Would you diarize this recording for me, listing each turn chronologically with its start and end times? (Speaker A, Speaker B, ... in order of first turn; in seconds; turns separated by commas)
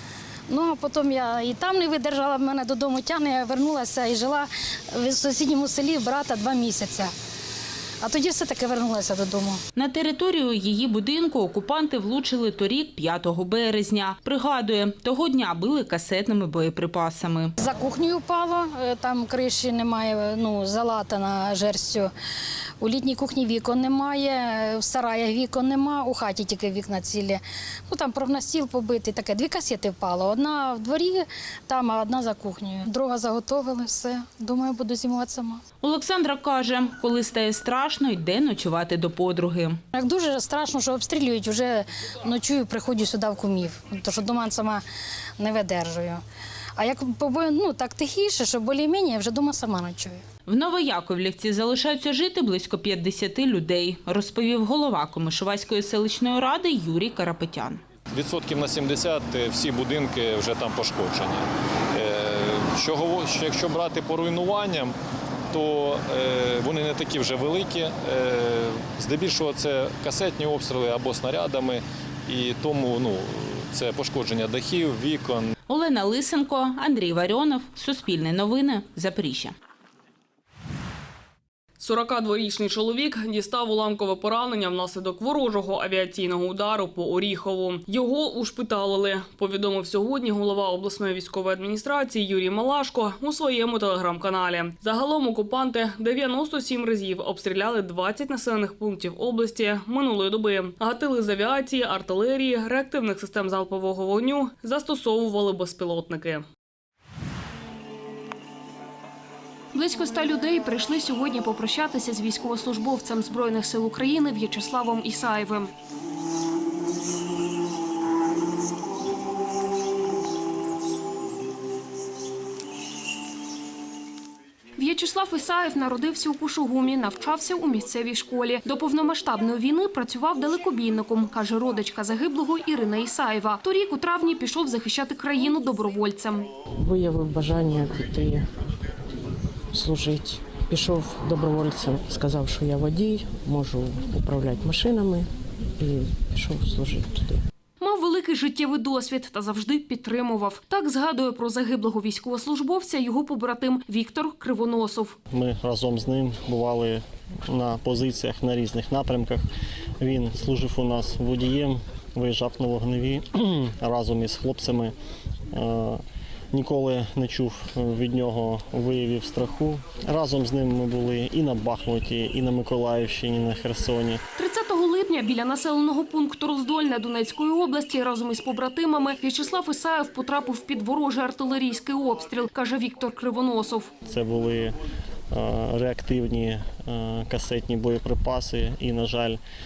Speaker A: 0.5-7.1, Speaker A: 8.0-9.6, Speaker B: 9.8-17.5, Speaker A: 17.6-22.1, Speaker A: 22.8-35.6, Speaker B: 35.8-39.8, Speaker A: 39.9-44.8, Speaker A: 45.4-46.2, Speaker A: 46.8-50.2, Speaker B: 50.5-57.8, Speaker C: 58.1-64.9, Speaker C: 65.5-75.5, Speaker B: 75.7-79.5, Speaker D: 81.8-106.5, Speaker E: 109.7-115.7, Speaker E: 124.8-136.5, Speaker F: 136.7-138.5, Speaker F: 139.7-147.4, Speaker E: 147.8-155.2, Speaker G: 155.3-159.4, Speaker G: 160.0-164.9, Speaker G: 165.5-174.2, Speaker E: 174.4-183.9, Speaker G: 184.1-184.7, Speaker G: 185.3-189.4